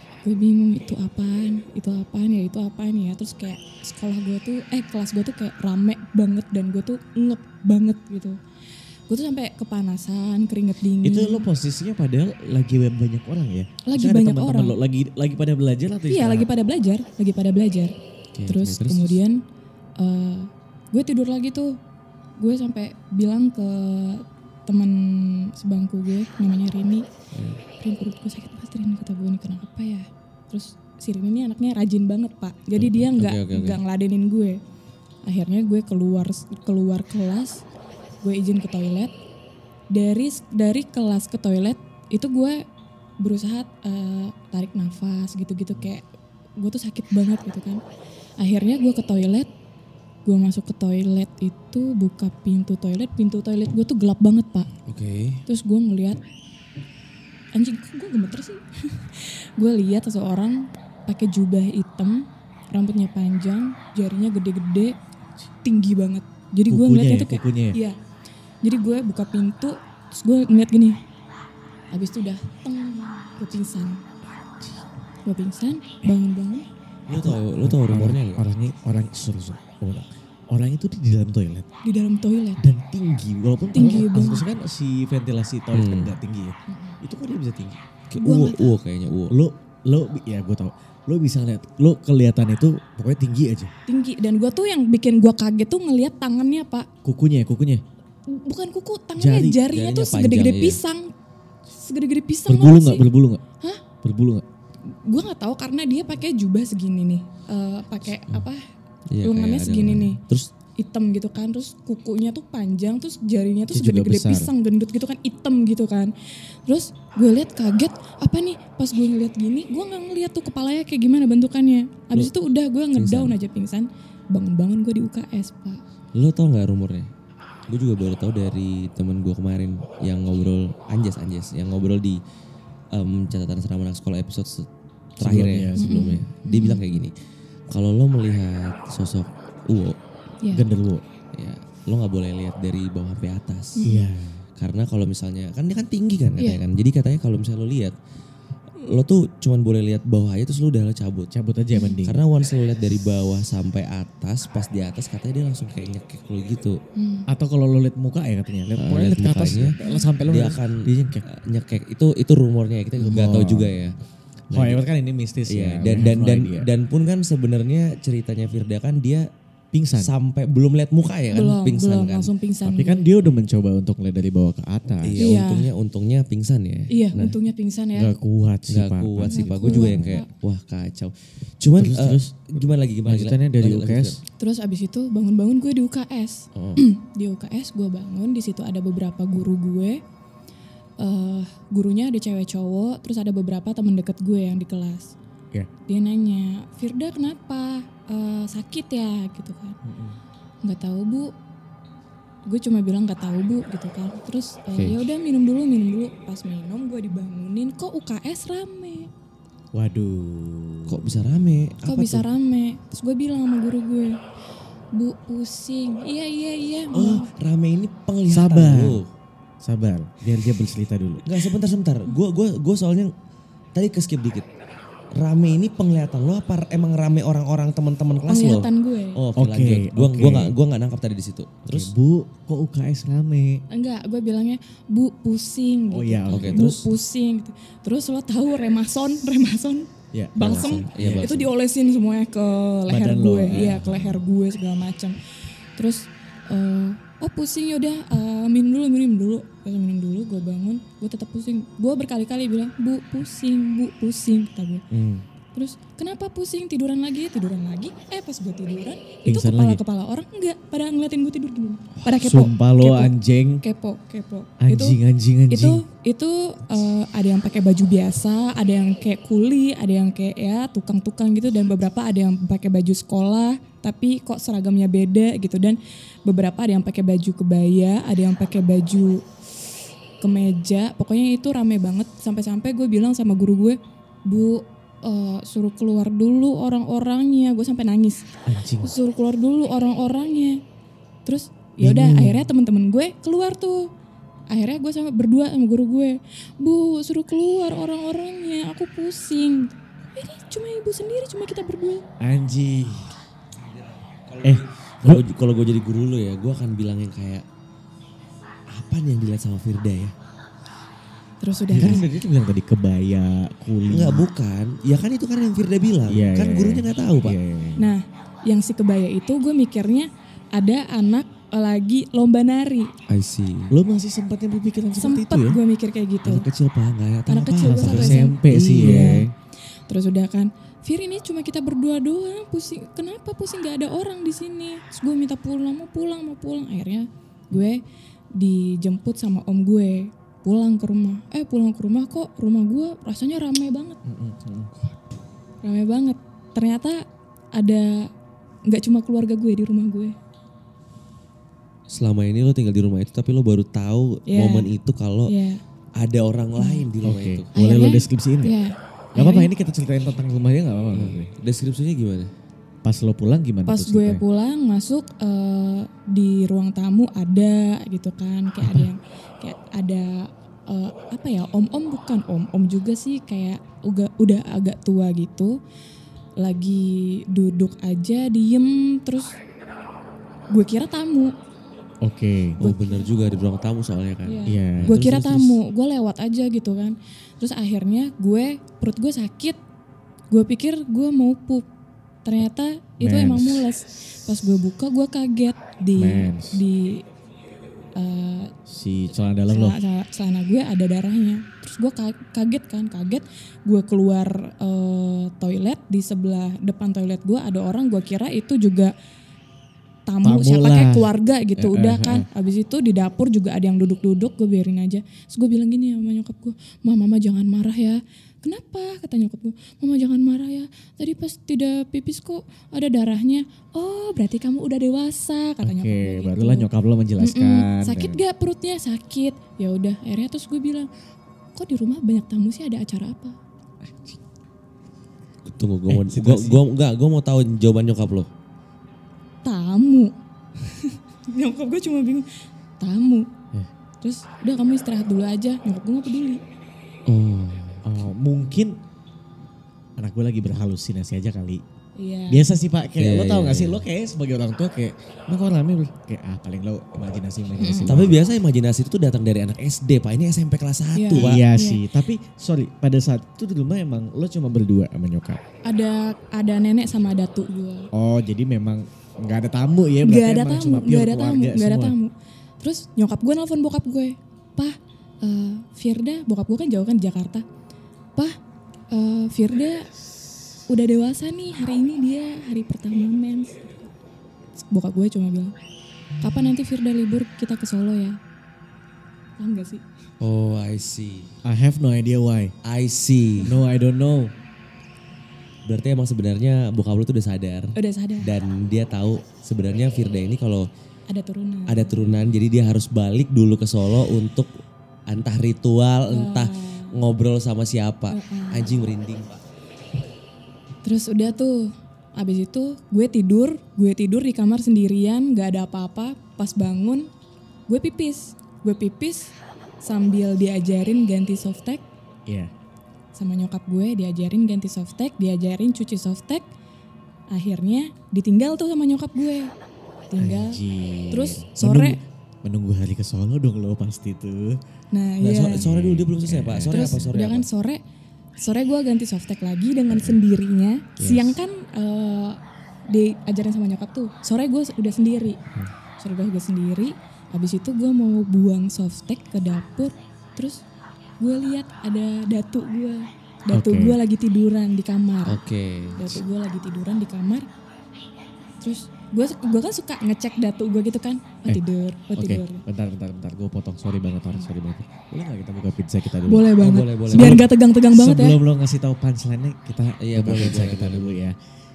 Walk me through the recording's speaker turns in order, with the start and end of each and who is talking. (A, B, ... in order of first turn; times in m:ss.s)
0:00.2-0:08.4 A
0:09.1-0:11.4 A
0:11.0-0:16.5 B
0:13.8-0:14.8 A
0:16.1-0:17.9 A
0:18.3-0:19.2 C
0:18.5-0:19.4 A
0:20.0-0:21.8 A
0:22.4-0:27.1 A
0:27.3-0:27.6 C
0:27.8-0:34.6 A
0:32.8-0:33.8 C
0:35.2-0:37.6 A
0:38.2-0:39.1 A
0:39.9-0:42.6 A
0:43.2-0:46.0 A
0:46.6-0:47.8 A
0:48.4-0:49.5 A
0:50.2-0:54.7 A
0:54.8-0:55.4 C
0:55.4-0:56.2 A
0:57.5-1:05.0 A
1:05.6-1:08.0 A
1:06.7-1:07.8 B
1:08.6-1:11.0 A
1:11.9-1:14.0 A
1:14.4-1:14.8 B
1:15.2-1:16.7 A
1:17.1-1:18.4 C
1:17.2-1:21.7 B
1:21.8-1:22.6 A
1:22.6-1:27.8 B
1:23.7-1:24.4 A
1:25.7-1:26.1 C
1:26.7-1:27.0 A
1:28.1-1:29.3 C
1:28.2-1:28.7 A
1:29.3-1:33.7 B
1:33.9-1:36.9 A
1:37.0-1:37.8 B
1:38.3-1:41.1 A
1:39.2-1:39.6 B
1:39.7-1:40.8 C
1:41.7-1:43.1 A
1:42.5-1:43.4 B
1:44.0-1:44.4 B
1:44.9-1:48.6 A
1:49.1-1:50.5 C
1:49.2-1:50.2 A
1:50.8-2:05.8 A
1:53.7-1:54.5 B
2:02.9-2:03.4 C
2:06.1-2:07.1 C
2:07.7-2:12.2 C
2:12.9-2:14.7 C
2:15.2-2:17.1 C
2:15.2-2:16.0 B
2:15.8-2:16.8 A
2:17.7-2:20.0 C
2:20.4-2:20.7 A
2:20.5-2:21.0 B
2:21.3-2:23.8 C
2:23.8-2:24.1 A
2:23.8-2:24.4 B
2:24.6-2:27.9 C
2:28.8-2:31.3 C
2:31.3-2:32.2 B
2:32.0-2:36.8 C
2:36.9-2:37.3 A
2:37.3-2:41.2 B
2:38.7-2:44.0 C
2:39.8-2:40.1 A
2:43.0-2:43.8 B
2:44.5-2:44.8 C
2:44.5-2:46.7 B
2:45.5-2:49.3 C
2:49.7-2:50.1 B
2:50.0-2:52.3 C
2:51.3-2:53.1 A
2:52.6-2:55.3 B
2:55.0-2:57.4 C
2:55.2-2:55.7 A
2:56.9-2:58.1 A
2:57.9-3:00.2 B
2:58.7-3:04.2 C
2:59.3-3:00.3 A
3:01.8-3:04.2 B
3:04.4-3:10.0 A
3:06.5-3:06.8 C
3:11.0-3:15.1 A
3:15.9-3:19.8 A
3:19.8-3:20.2 B
3:20.6-3:21.3 A
3:22.4-3:29.1 A
3:29.7-3:31.3 B
3:30.9-3:32.3 C
3:31.8-3:34.2 A
3:34.9-3:37.3 A
3:36.9-3:37.2 B
3:37.3-3:39.1 C
3:38.3-3:39.0 B
3:39.6-3:41.4 B
3:41.2-3:43.1 C
3:43.7-3:44.5 C
3:45.1-3:51.9 C
3:48.3-3:49.2 A
3:49.4-3:50.6 B
3:51.6-3:53.6 B
3:53.7-4:05.2 A
3:55.9-3:56.7 B
3:56.3-3:56.9 C
4:00.1-4:01.4 B
4:00.5-4:01.4 C
4:02.9-4:04.2 B
4:05.8-4:14.8 A
4:14.9-4:15.2 B
4:15.5-4:25.0 A
4:19.2-4:19.8 B
4:22.2-4:23.6 B
4:24.6-4:25.8 B
4:25.5-4:39.2 A
4:40.2-4:50.6 A
4:48.4-4:48.9 B
4:51.2-4:53.9 A
4:51.8-4:52.5 B
4:54.5-5:02.0 A
5:02.2-5:03.2 B
5:03.6-5:07.4 C
5:04.4-5:05.2 B
5:08.7-5:10.1 C
5:11.4-5:12.0 A
5:11.7-5:14.2 B
5:13.9-5:17.4 C
5:16.0-5:17.9 B
5:17.8-5:22.9 A
5:23.1-5:23.8 C
5:23.7-5:25.6 B
5:25.0-5:26.4 A
5:26.2-5:29.2 C
5:27.3-5:29.3 A
5:27.6-5:29.3 B
5:29.9-5:37.8 A
5:38.3-5:44.0 A
5:44.0-5:44.7 B
5:45.6-5:48.1 A
5:48.7-5:50.2 A
5:51.9-5:55.3 C
5:54.3-5:54.7 A
5:55.2-5:55.6 A
5:56.0-5:57.5 C
5:56.6-5:56.8 A
5:57.0-5:58.6 B
5:57.5-5:59.5 A
5:59.2-6:01.3 B
6:00.9-6:02.3 C
6:02.8-6:04.2 B
6:03.6-6:15.6 A
6:08.6-6:08.9 B
6:16.4-6:19.3 A
6:20.5-6:21.3 A
6:22.0-6:22.6 B
6:22.6-6:25.6 C
6:22.6-6:23.1 A
6:24.2-6:29.6 A
6:24.4-6:25.0 B
6:30.3-6:31.6 A
6:32.2-6:37.0 A
6:33.0-6:33.7 B
6:36.0-6:36.6 B
6:38.0-6:38.5 A
6:38.6-6:39.8 B
6:39.5-6:48.9 A
6:50.1-7:06.7 A
6:50.2-6:52.3 B
7:05.6-7:08.2 B
7:07.2-7:10.9 A
7:11.5-7:13.4 A
7:15.4-7:18.3 C
7:15.9-7:16.6 B
7:19.4-7:22.3 A
7:22.8-7:23.3 A
7:24.0-7:26.4 A
7:27.0-7:27.8 C
7:27.8-7:28.8 B
7:30.0-7:31.6 B
7:32.0-7:32.5 A
7:32.3-7:38.2 B
7:33.0-7:33.8 C
7:37.6-7:38.0 A
7:37.8-7:41.4 C
7:40.9-7:41.8 A
7:41.1-7:45.4 B
7:45.6-7:47.9 A
7:47.9-7:52.0 B
7:50.0-7:57.4 A
7:58.9-7:59.9 A
8:00.7-8:03.9 A
8:04.6-8:05.5 A
8:06.2-8:08.2 A
8:09.4-8:09.8 A
8:10.2-8:11.3 C
8:11.4-8:12.5 B
8:12.6-8:13.5 C
8:13.4-8:14.3 B
8:15.6-8:20.7 C
8:17.7-8:18.3 A
8:21.1-8:22.3 A
8:21.7-8:24.5 C
8:25.1-8:29.4 C
8:26.1-8:27.0 A
8:28.1-8:28.8 A
8:30.8-8:37.1 A
8:37.7-8:41.8 A
8:43.1-8:46.4 A
8:47.3-8:49.5 A
8:50.1-8:52.0 A
8:50.2-8:54.6 B
8:54.9-8:55.6 A
8:55.2-8:57.5 C
8:55.4-8:57.1 B
8:56.7-8:57.8 A
8:58.4-9:05.4 A
8:59.9-9:00.2 B
9:01.0-9:01.4 B
9:06.0-9:10.6 A
9:11.2-9:15.4 A
9:13.5-9:14.0 B
9:15.3-9:16.2 C
9:16.0-9:17.5 A
9:18.6-9:22.6 A
9:22.2-9:31.4 B
9:26.2-9:28.4 A
9:26.6-9:27.4 C
9:30.0-9:31.2 C